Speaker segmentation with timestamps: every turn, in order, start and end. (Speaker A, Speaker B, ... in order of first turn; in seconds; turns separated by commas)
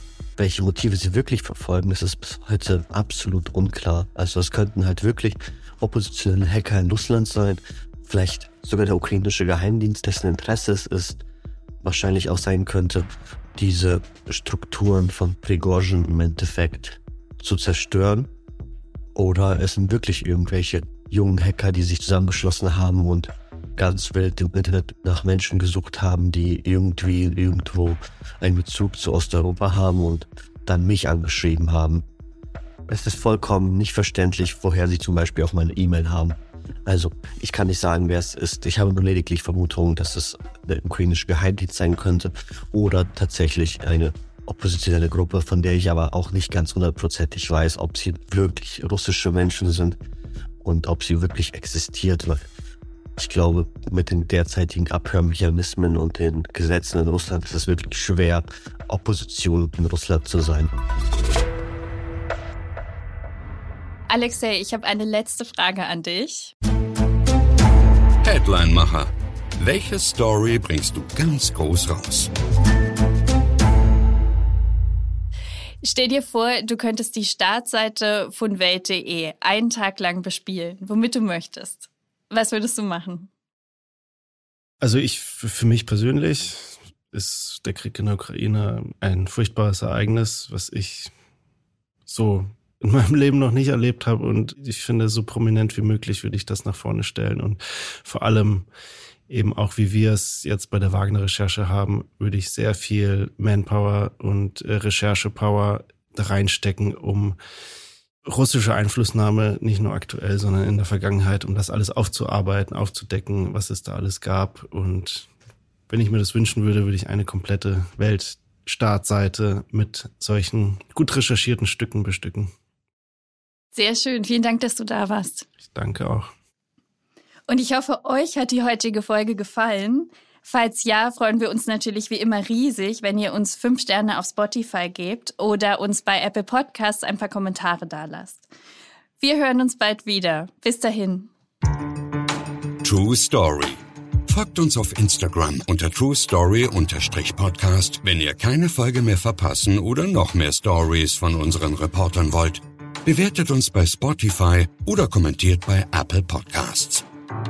Speaker A: 0.4-11.2, Speaker A: 11.8-18.3, Speaker A: 19.1-32.0, Speaker A: 32.9-50.0, Speaker A: 50.6-52.5, Speaker A: 53.2-60.7, Speaker B: 64.1-66.5, Speaker C: 68.2-72.3, Speaker B: 75.8-83.3, Speaker D: 84.8-91.1, Speaker D: 92.1-98.7, Speaker D: 99.3-107.4, Speaker D: 108.2-115.3, Speaker D: 115.9-122.5, Speaker B: 123.7-125.5, Speaker D: 125.7-126.3, Speaker B: 127.5-138.4, Speaker B: 139.2-141.3, Speaker C: 142.8-157.0